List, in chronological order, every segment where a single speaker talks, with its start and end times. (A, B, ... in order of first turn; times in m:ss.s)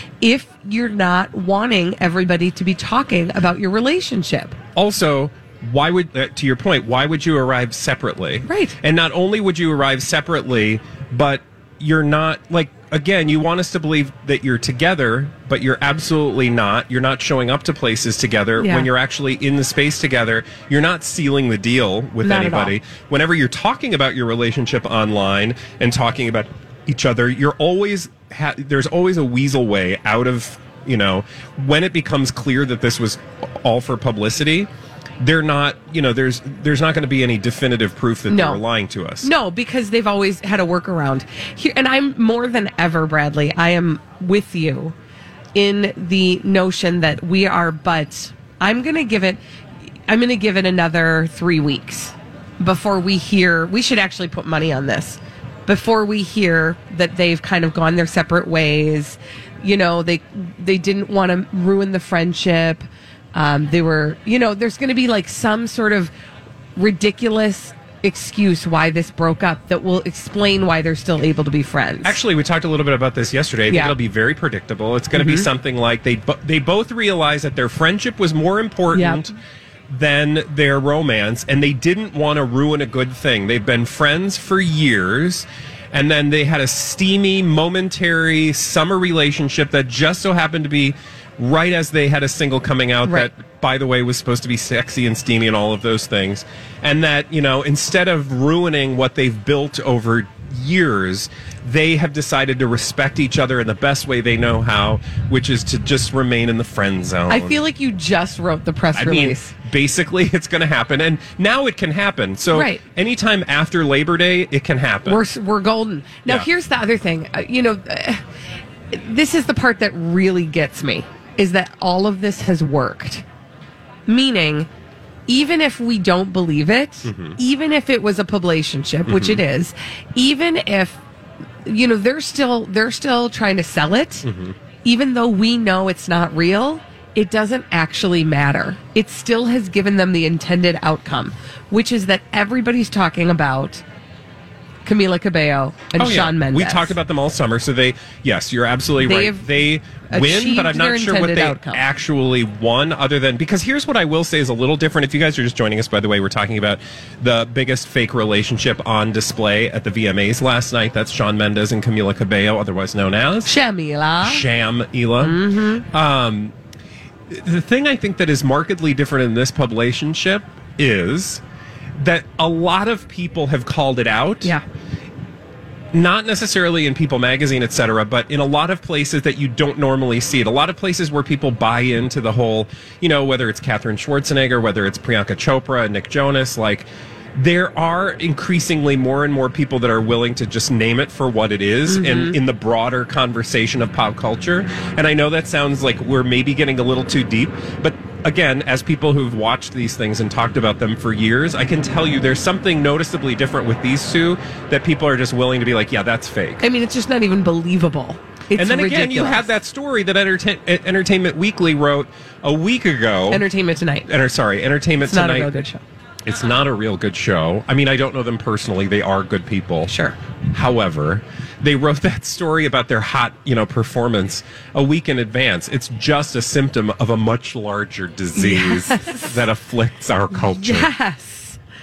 0:00.2-0:04.6 A
0:04.8-0:34.7 B
0:08.5-0:08.8 A
0:18.6-0:18.9 A
0:22.2-0:22.8 A
0:35.2-0:39.3 B
0:38.3-0:38.6 A
0:39.2-0:45.0 A
0:45.6-0:49.4 A
0:50.1-1:06.1 A
1:06.8-1:12.2 A
1:12.0-1:19.3 B
1:15.1-1:15.5 A
1:18.9-1:19.2 A
1:19.9-1:47.6 B
1:47.3-1:49.5 A
1:48.9-1:55.2 B
1:52.5-1:52.8 A
1:55.1-1:58.2 A
1:58.9-2:03.2 A
2:04.1-2:04.7 A
2:05.3-2:11.0 A
2:07.0-2:07.4 B
2:09.1-2:09.4 B
2:11.6-2:14.3 A
2:14.2-2:14.6 B
2:14.8-2:23.8 A
2:24.8-2:27.0 A
2:26.0-2:43.6 B
2:29.0-2:31.8 A
2:43.4-2:44.4 A
2:44.2-2:46.5 B
2:45.2-2:45.8 A
2:47.3-2:51.4 B
2:52.0-2:54.6 B
2:55.9-3:26.7 B
3:11.9-3:12.4 A
3:26.6-3:29.5 A
3:28.6-3:33.4 B
3:33.3-3:34.1 A
3:34.1-3:35.5 B
3:35.1-3:35.8 A
3:36.2-3:40.0 B
3:39.9-3:40.2 A
3:40.5-3:50.9 B
3:48.4-3:49.4 A
3:50.3-3:51.6 A